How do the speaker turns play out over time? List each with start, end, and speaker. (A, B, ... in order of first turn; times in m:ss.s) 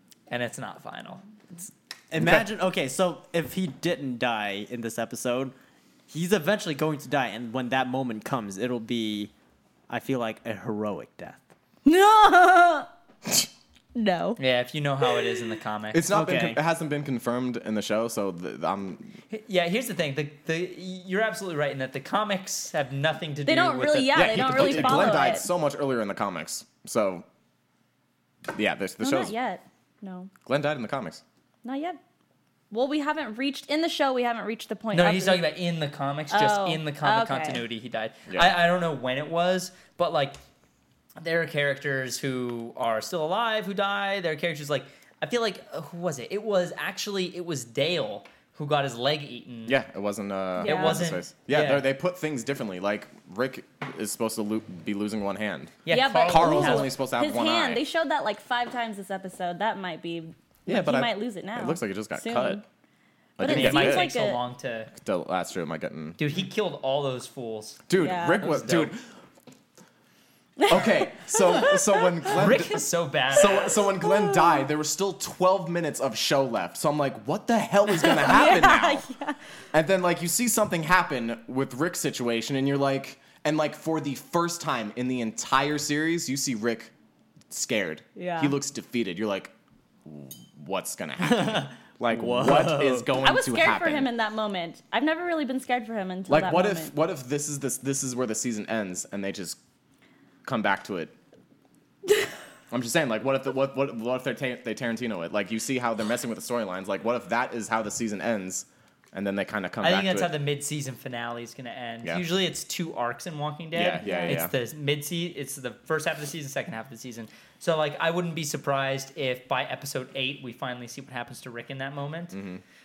0:00.3-0:01.2 A
0:01.6-0:05.5 B
0:02.2-0:02.4 C
0:06.1-0:09.3 B
0:09.9-0:11.4 B
0:11.8-0:12.9 D
0:13.9-0:14.4 D
0:14.4-0:16.0 A
0:15.9-0:19.2 C
0:16.1-0:16.6 B
0:19.3-0:25.3 A
0:23.4-0:25.5 D
0:24.1-0:27.2 C
0:28.5-0:29.3 C
0:29.0-0:30.3 D
0:30.4-0:31.2 C
0:31.6-0:32.0 D
0:32.7-0:35.4 D
0:34.9-0:40.4 A
0:36.3-0:37.6 D
0:38.3-0:38.5 C
0:41.2-0:49.8 A
0:49.6-0:57.8 C
0:50.6-0:51.9 A
0:50.6-0:51.0 D
0:55.8-0:56.9 A
0:55.9-1:02.6 D
1:00.7-1:02.6 C
1:03.4-1:04.1 C
1:03.4-1:04.4 D
1:03.4-1:04.9 A
1:04.9-1:06.2 C
1:06.2-1:07.9 A
1:07.9-1:09.0 C
1:07.9-1:08.5 D
1:08.4-1:08.9 A
1:10.6-1:11.8 D
1:10.7-1:19.0 C
1:12.3-1:13.7 A
1:14.0-1:14.6 D
1:18.0-1:19.4 D
1:19.7-1:26.9 C
1:27.5-1:29.5 C
1:28.2-1:28.6 D
1:30.0-1:34.1 C
1:31.3-1:33.1 B
1:33.2-1:36.9 D
1:36.3-1:39.6 C
1:40.4-1:41.1 C
1:42.7-1:50.3 C
1:49.8-2:02.4 A
1:53.7-1:54.5 C
1:54.0-1:54.4 D
2:02.3-2:02.6 C